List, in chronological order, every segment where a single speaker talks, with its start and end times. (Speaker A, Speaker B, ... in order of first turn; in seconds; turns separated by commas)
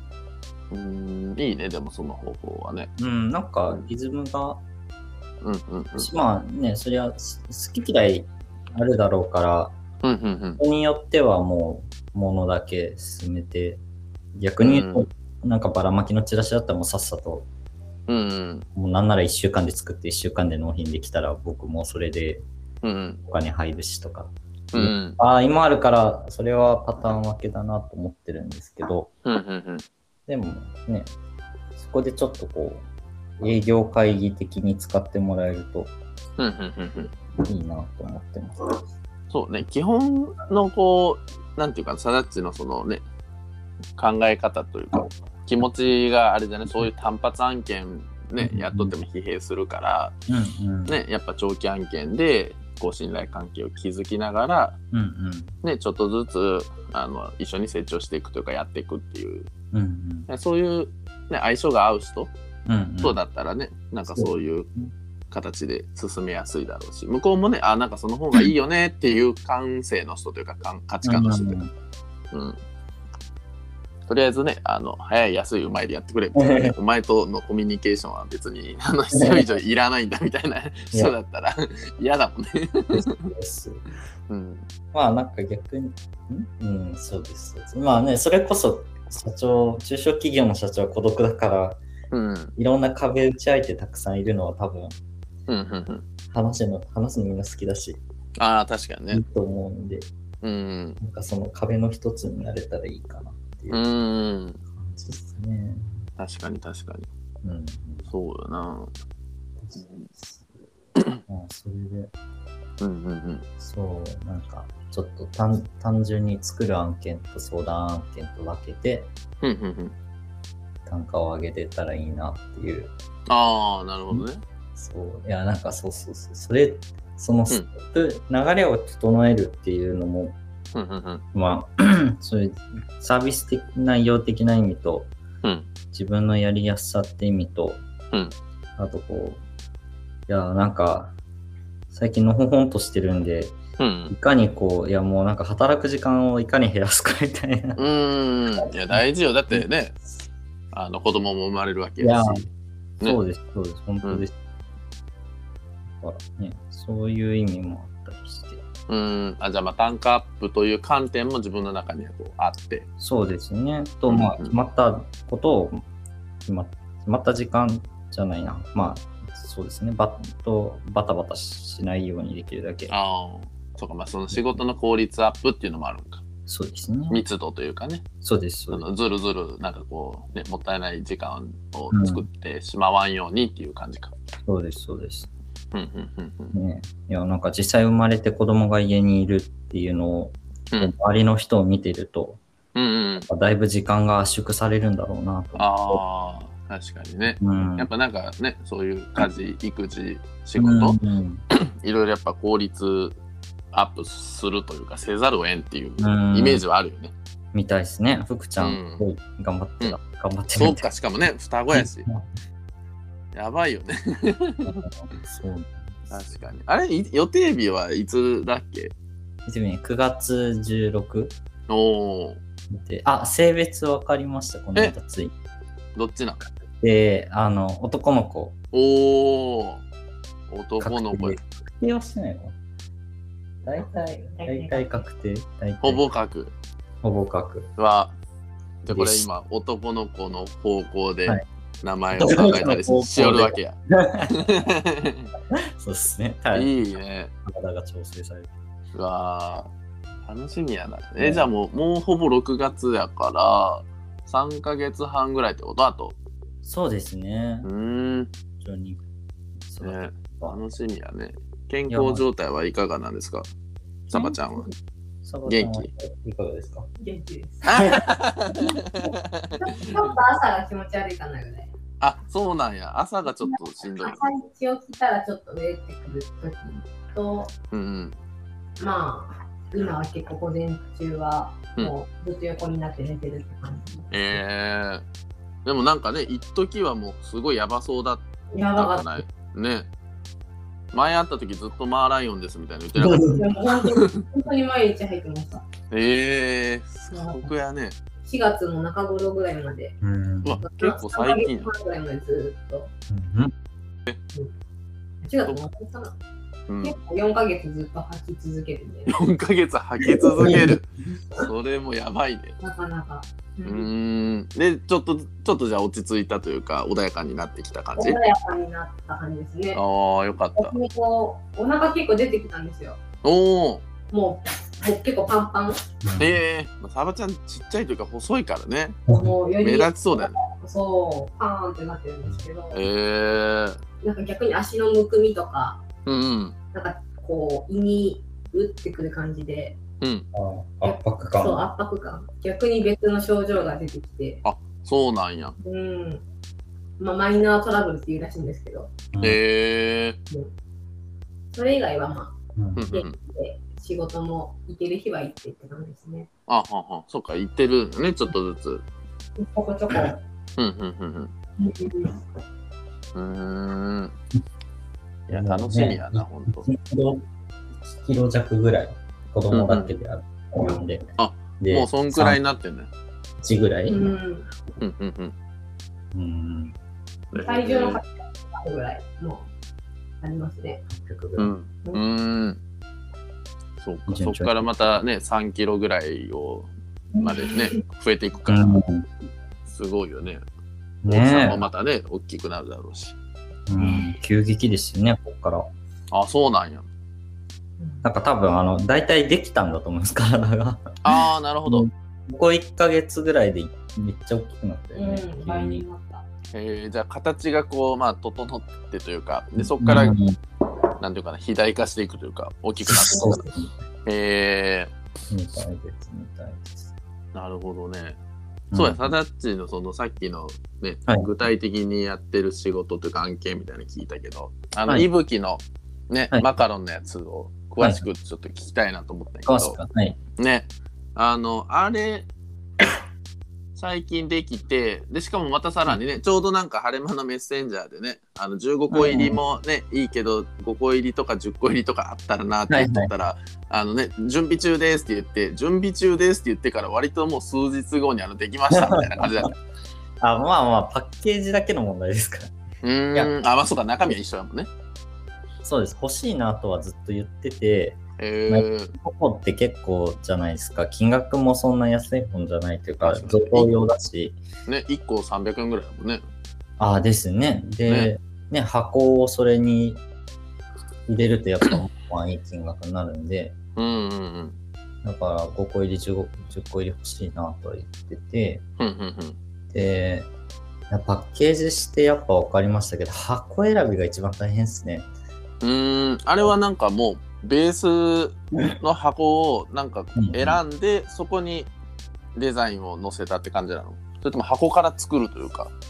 Speaker A: 0.7-2.9, Speaker B: 3.0-4.6, Speaker A: 5.4-6.1, Speaker B: 6.0-9.8, Speaker A: 10.0-10.6, Speaker B: 10.6-13.8, Speaker B: 14.3-17.5, Speaker A: 14.6-15.1, Speaker A: 18.1-18.7, Speaker B: 18.8-22.4, Speaker A: 22.8-23.2, Speaker B: 23.3-29.1, Speaker A: 24.7-25.2, Speaker A: 29.2-29.9, Speaker B: 30.3-31.1, Speaker B: 31.8-32.9, Speaker B: 33.4-35.9, Speaker A: 36.4-37.1, Speaker B: 37.4-38.8, Speaker A: 39.3-43.0, Speaker A: 44.0-50.1, Speaker B: 48.4-49.0, Speaker B: 50.3-51.0, Speaker A: 50.9-54.8, Speaker B: 54.9-55.6, Speaker A: 55.6-59.5, Speaker B: 59.7-60.3, Speaker A: 60.3-62.3, Speaker B: 62.7-63.2, Speaker A: 63.0-64.7, Speaker B: 64.1-64.9, Speaker A: 65.3-71.6, Speaker B: 71.0-71.7, Speaker A: 72.3-72.6, Speaker A: 74.1-83.3, Speaker B: 76.4-76.7, Speaker B: 79.2-79.5, Speaker B: 82.9-83.8, Speaker A: 84.3-84.7, Speaker B: 84.9-91.8, Speaker A: 92.1-92.5, Speaker B: 92.6-95.0, Speaker A: 95.5-96.0, Speaker B: 96.3-98.0, Speaker A: 98.4-99.2, Speaker B: 99.1-100.1, Speaker A: 100.4-101.0, Speaker B: 101.0-103.8, Speaker A: 103.7-104.6, Speaker B: 104.7-105.9, Speaker A: 106.2-107.1, Speaker B: 107.4-108.1, Speaker A: 108.1-108.9, Speaker A: 109.8-110.1, Speaker A: 111.0-111.2, Speaker B: 111.3-112.1, Speaker A: 112.8-113.5, Speaker B: 113.6-119.1, Speaker A: 119.4-120.0, Speaker B: 120.9-122.9, Speaker A: 123.3-124.4, Speaker B: 124.1-130.4, Speaker A: 130.7-131.2, Speaker B: 131.3-135.1, Speaker B: 135.9-137.8, Speaker B: 138.8-139.4, Speaker B: 140.3-141.1, Speaker B: 141.9-143.6, Speaker A: 143.8-144.2, Speaker B: 144.1-147.8, Speaker A: 147.8-150.0, Speaker B: 148.7-149.6, Speaker A: 150.7-152.5, Speaker B: 152.0-152.5, Speaker B: 153.0-154.3, Speaker B: 156.0-158.6, Speaker A: 158.9-162.9, Speaker B: 163.0-165.8, Speaker A: 164.1-164.6, Speaker B: 166.5-172.9, Speaker A: 172.9-176.2, Speaker B: 174.3-174.6, Speaker B: 176.5-177.2, Speaker A: 177.1-178.1, Speaker B: 178.2-178.8, Speaker A: 178.7-184.1, Speaker B: 181.9-182.2, Speaker B: 184.5-185.3, Speaker A: 185.7-186.6, Speaker B: 186.5-192.4, Speaker A: 192.8-193.3, Speaker B: 193.2-196.0, Speaker A: 195.6-201.0, Speaker B: 197.4-197.9, Speaker B: 200.6-201.4, Speaker A: 201.5-203.2, Speaker A: 203.7-207.1, Speaker B: 206.0-206.6, Speaker B: 207.5-210.9, Speaker A: 208.6-209.1, Speaker A: 210.6-212.1, Speaker B: 211.7-212.2, Speaker A: 213.3-214.9, Speaker B: 214.7-216.4, Speaker A: 216.1-218.9, Speaker B: 219.5-221.3, Speaker A: 221.7-222.4, Speaker B: 222.7-225.3, Speaker A: 226.0-226.4, Speaker B: 226.6-228.6, Speaker A: 228.7-229.8, Speaker A: 230.5-231.4, Speaker B: 230.8-232.6, Speaker B: 233.7-236.0, Speaker A: 235.8-236.5, Speaker B: 237.0-237.7, Speaker A: 237.8-238.2, Speaker A: 238.8-243.8, Speaker B: 238.9-239.3, Speaker B: 242.2-244.7, Speaker A: 244.3-245.3, Speaker B: 245.5-246.8, Speaker A: 246.5-247.3, Speaker B: 247.4-248.5, Speaker A: 248.9-249.7, Speaker A: 250.3-256.2, Speaker B: 251.2-251.5, Speaker B: 256.6-257.7, Speaker A: 257.6-258.3, Speaker B: 258.6-259.0, Speaker B: 259.7-260.6, Speaker A: 259.8-263.5, Speaker B: 261.9-262.2, Speaker A: 264.1-264.7, Speaker C: 264.1-264.5, Speaker B: 265.2-266.9, Speaker A: 265.5-265.9, Speaker C: 267.0-268.0, Speaker A: 267.6-270.1, Speaker C: 269.6-271.7, Speaker A: 272.0-274.2, Speaker C: 273.5-277.5, Speaker A: 277.7-278.2, Speaker C: 278.8-284.1, Speaker A: 284.1-285.0, Speaker A: 285.6-289.9, Speaker C: 288.5-289.2, Speaker A: 290.9-294.2, Speaker B: 293.1-293.3, Speaker C: 293.2-295.7, Speaker A: 295.9-298.0, Speaker C: 297.1-297.5, Speaker C: 298.2-300.0, Speaker B: 300.0-300.6, Speaker A: 300.4-301.7, Speaker C: 300.6-302.9, Speaker B: 303.1-303.5, Speaker C: 305.2-306.1, Speaker A: 306.7-307.0, Speaker C: 306.8-309.2, Speaker A: 309.1-310.9, Speaker C: 310.1-310.7, Speaker A: 311.4-312.6, Speaker C: 312.6-313.9, Speaker A: 313.6-318.2, Speaker C: 318.0-319.8, Speaker A: 319.7-320.8, Speaker C: 320.6-323.0, Speaker A: 323.2-323.8, Speaker C: 324.1-325.8, Speaker B: 326.0-326.3, Speaker A: 326.2-329.0, Speaker C: 329.1-332.8, Speaker A: 329.6-330.4, Speaker A: 332.7-333.8, Speaker C: 334.0-335.8, Speaker A: 336.1-336.6, Speaker C: 336.7-339.8, Speaker A: 340.0-340.3, Speaker B: 340.3-341.6, Speaker C: 340.8-344.4, Speaker A: 344.4-345.6, Speaker C: 345.6-346.2, Speaker C: 347.0-348.9, Speaker B: 349.1-349.4, Speaker A: 349.2-350.2, Speaker C: 351.5-352.4, Speaker B: 352.6-352.9, Speaker A: 352.8-353.2, Speaker C: 352.9-356.3, Speaker A: 356.5-358.9, Speaker C: 359.4-360.2, Speaker A: 360.6-361.3, Speaker C: 361.6-362.2, Speaker A: 363.1-364.2, Speaker B: 365.3-367.2, Speaker A: 365.3-366.7, Speaker B: 367.9-371.1, Speaker A: 369.5-369.9, Speaker A: 371.2-372.9, Speaker B: 371.6-372.4, Speaker B: 373.4-374.1, Speaker C: 373.9-374.5, Speaker A: 374.8-375.3, Speaker B: 376.1-376.8, Speaker A: 377.3-378.0, Speaker C: 377.4-379.5, Speaker C: 380.2-380.8, Speaker B: 380.9-381.5, Speaker A: 381.4-382.6, Speaker A: 383.8-388.8, Speaker B: 384.1-384.7, Speaker C: 387.2-387.6, Speaker B: 388.5-389.1, Speaker A: 389.7-390.4, Speaker B: 391.0-391.7, Speaker A: 391.1-393.2, Speaker B: 393.7-395.7, Speaker A: 396.1-396.9, Speaker C: 397.8-398.1, Speaker B: 398.0-401.0, Speaker A: 401.0-401.9, Speaker B: 401.7-405.9, Speaker C: 404.9-406.2, Speaker A: 406.5-410.2, Speaker B: 409.6-410.4, Speaker A: 411.0-413.5, Speaker B: 412.9-413.7, Speaker A: 414.1-414.9, Speaker B: 415.3-416.9, Speaker A: 417.3-418.2, Speaker B: 418.7-419.1, Speaker A: 418.7-429.8, Speaker B: 429.5-430.2, Speaker A: 430.4-432.3, Speaker A: 433.8-449.5, Speaker B: 438.9-439.4, Speaker B: 442.7-443.1, Speaker B: 448.8-449.3, Speaker B: 450.2-452.6, Speaker A: 452.8-454.7, Speaker B: 455.6-464.4, Speaker A: 458.2-458.9, Speaker A: 463.0-463.7, Speaker A: 464.7-466.2, Speaker B: 466.8-470.0, Speaker B: 471.1-473.6, Speaker A: 473.8-474.6, Speaker B: 475.0-478.6, Speaker A: 478.8-479.4, Speaker B: 479.7-480.3, Speaker B: 480.9-485.1, Speaker A: 485.6-491.7, Speaker B: 490.2-490.6, Speaker A: 492.4-495.7